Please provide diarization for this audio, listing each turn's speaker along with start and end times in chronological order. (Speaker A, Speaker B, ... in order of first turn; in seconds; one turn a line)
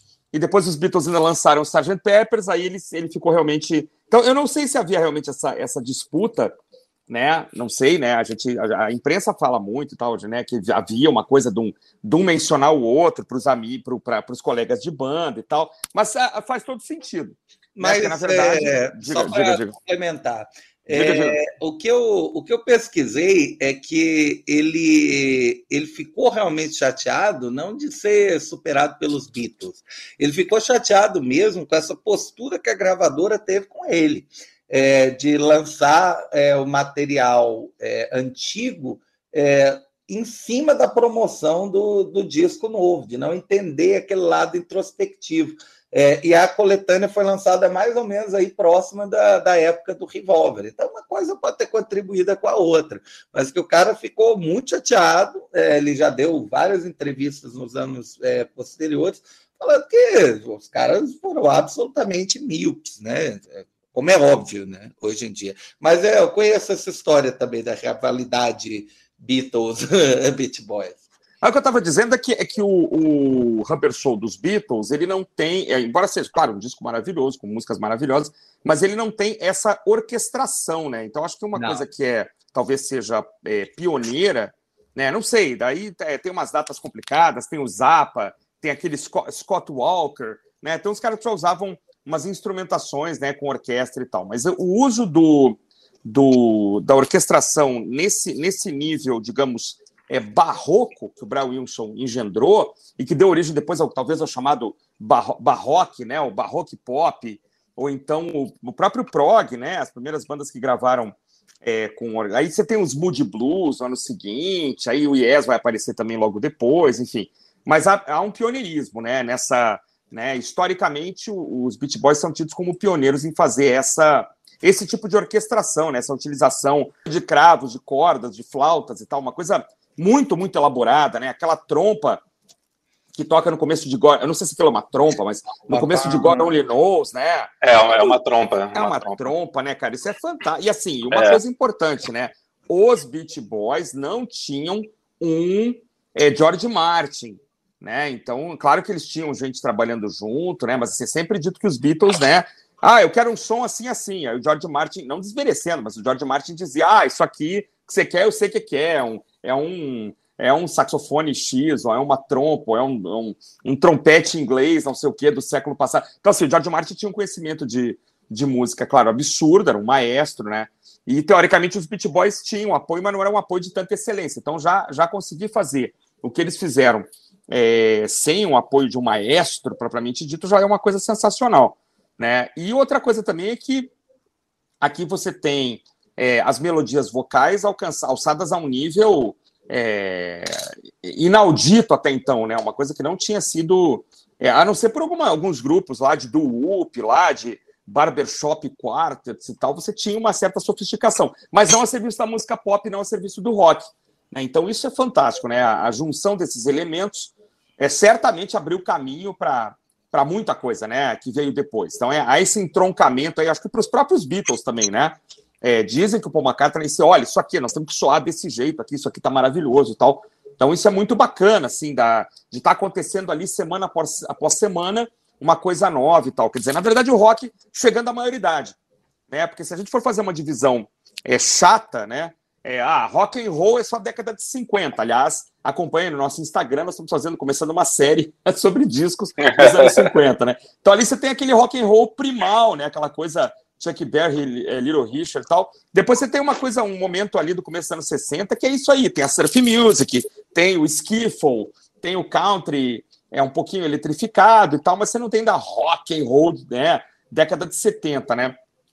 Speaker A: 0.3-6.5
Speaker A: 7.1-19.8
Speaker B: 17.8-71.0
Speaker A: 20.9-21.4
Speaker A: 71.4-132.2
Speaker B: 81.5-81.8
Speaker A: 133.1-138.2
Speaker B: 135.7-136.5
Speaker C: 137.6-139.3
Speaker A: 138.7-183.9
Speaker C: 141.1-141.4
Speaker A: 184.8-228.8
Speaker A: 229.3-258.6
Speaker C: 239.4-240.1